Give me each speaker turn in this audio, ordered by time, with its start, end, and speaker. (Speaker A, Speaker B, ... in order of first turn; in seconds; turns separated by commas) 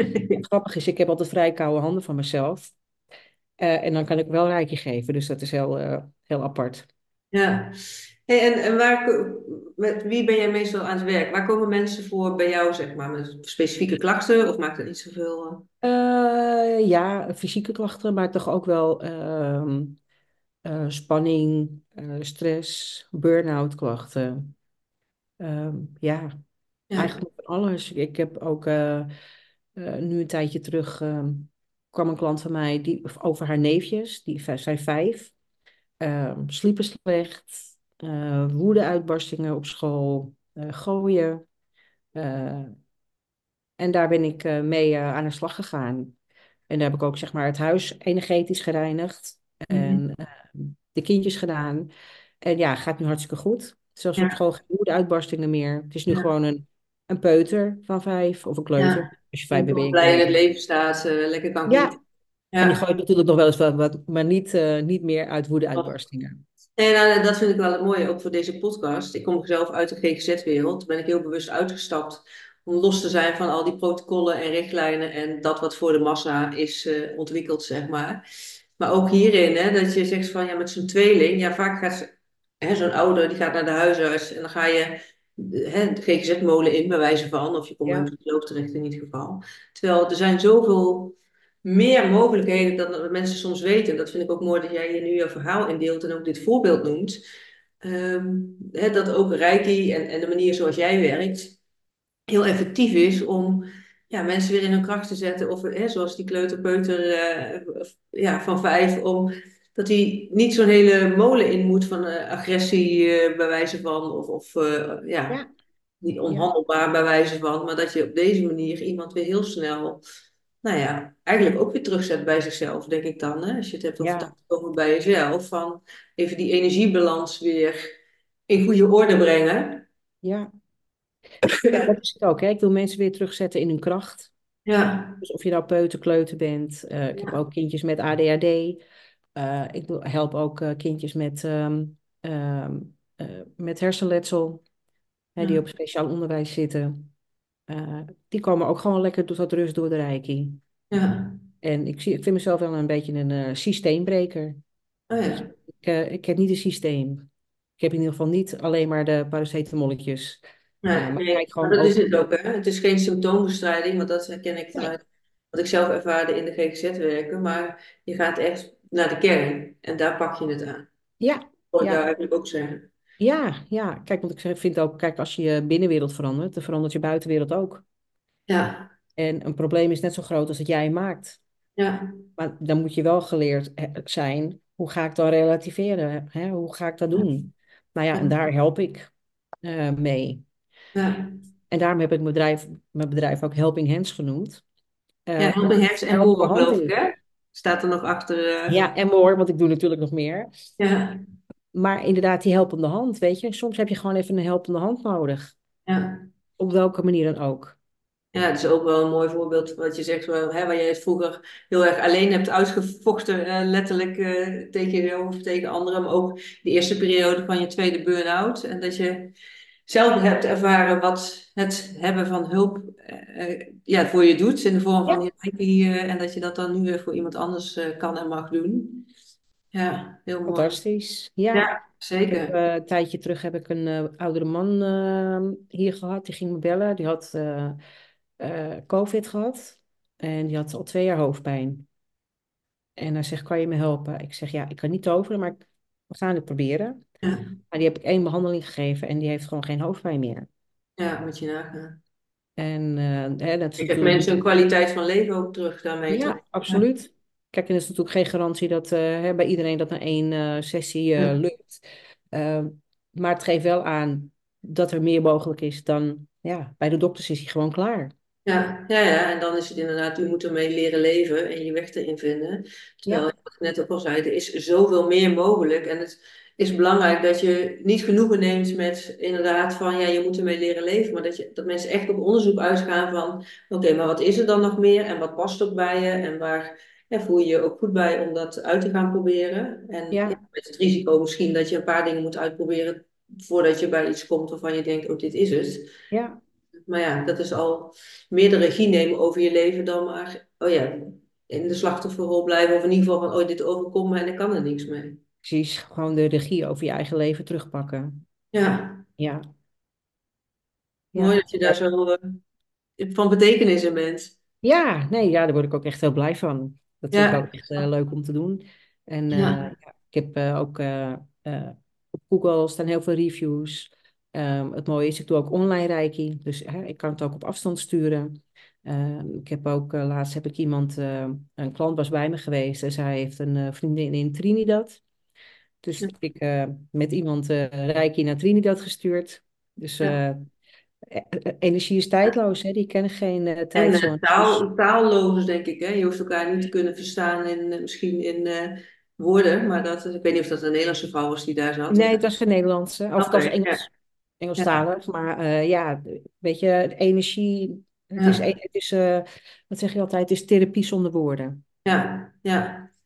Speaker A: 0.1-0.4, Speaker B: 0.4-2.7, Speaker B: 3.6-6.9, Speaker A: 7.3-15.7, Speaker B: 15.8-20.0, Speaker B: 20.6-24.5, Speaker B: 25.4-26.4, Speaker B: 27.0-29.1, Speaker B: 29.8-35.3, Speaker B: 36.0-41.4, Speaker B: 42.1-42.8, Speaker B: 43.8-46.2, Speaker B: 46.7-51.9, Speaker A: 49.7-50.0, Speaker B: 52.4-60.4, Speaker A: 58.8-62.0, Speaker B: 61.7-62.0, Speaker A: 62.5-62.8, Speaker B: 62.6-66.4, Speaker A: 66.8-78.2, Speaker A: 78.8-97.2, Speaker A: 97.8-101.6, Speaker A: 102.3-115.4, Speaker A: 116.0-120.0, Speaker A: 120.6-127.8, Speaker B: 124.0-124.3, Speaker A: 128.5-129.9, Speaker B: 130.2-130.5, Speaker A: 131.6-131.9, Speaker B: 131.7-134.3, Speaker A: 134.7-135.2, Speaker B: 135.2-138.8, Speaker B: 139.4-144.6, Speaker B: 145.4-147.1, Speaker B: 147.7-150.6, Speaker A: 150.9-151.4, Speaker B: 151.6-154.6, Speaker A: 155.1-155.5, Speaker B: 155.3-157.3, Speaker B: 157.8-160.4, Speaker A: 160.8-170.9, Speaker B: 160.9-162.2, Speaker B: 171.2-172.0, Speaker A: 171.7-172.9, Speaker B: 173.2-177.8, Speaker A: 178.5-178.9, Speaker B: 179.2-181.4, Speaker A: 181.8-182.2, Speaker B: 182.4-189.1, Speaker B: 189.6-190.4, Speaker A: 190.9-191.4, Speaker B: 191.7-194.6, Speaker B: 195.3-196.9, Speaker A: 195.4-198.9, Speaker B: 198.7-200.6, Speaker A: 200.8-201.2, Speaker B: 201.7-205.6, Speaker A: 205.9-206.3, Speaker B: 206.6-207.8, Speaker A: 208.3-219.3, Speaker A: 219.9-229.1, Speaker A: 229.7-230.8, Speaker B: 230.5-231.7, Speaker A: 231.5-232.5, Speaker B: 232.3-237.8, Speaker B: 238.4-241.9, Speaker B: 243.0-247.0, Speaker A: 247.2-247.5, Speaker B: 247.7-250.5, Speaker A: 251.0-252.0, Speaker B: 252.6-254.3, Speaker A: 253.8-256.8, Speaker B: 256.1-268.1, Speaker A: 268.5-295.9, Speaker B: 290.1-290.4, Speaker B: 296.1-296.4, Speaker A: 296.9-305.2, Speaker B: 305.4-308.2, Speaker A: 308.5-309.1, Speaker B: 309.2-309.4, Speaker B: 311.1-311.8, Speaker A: 311.2-312.4, Speaker A: 313.0-314.4, Speaker B: 314.6-335.0, Speaker A: 317.1-317.5, Speaker A: 319.3-319.6, Speaker B: 335.8-340.5, Speaker B: 341.1-344.6, Speaker A: 343.8-352.2, Speaker B: 351.9-361.6, Speaker A: 353.2-353.9, Speaker A: 358.2-358.4, Speaker A: 361.9-362.9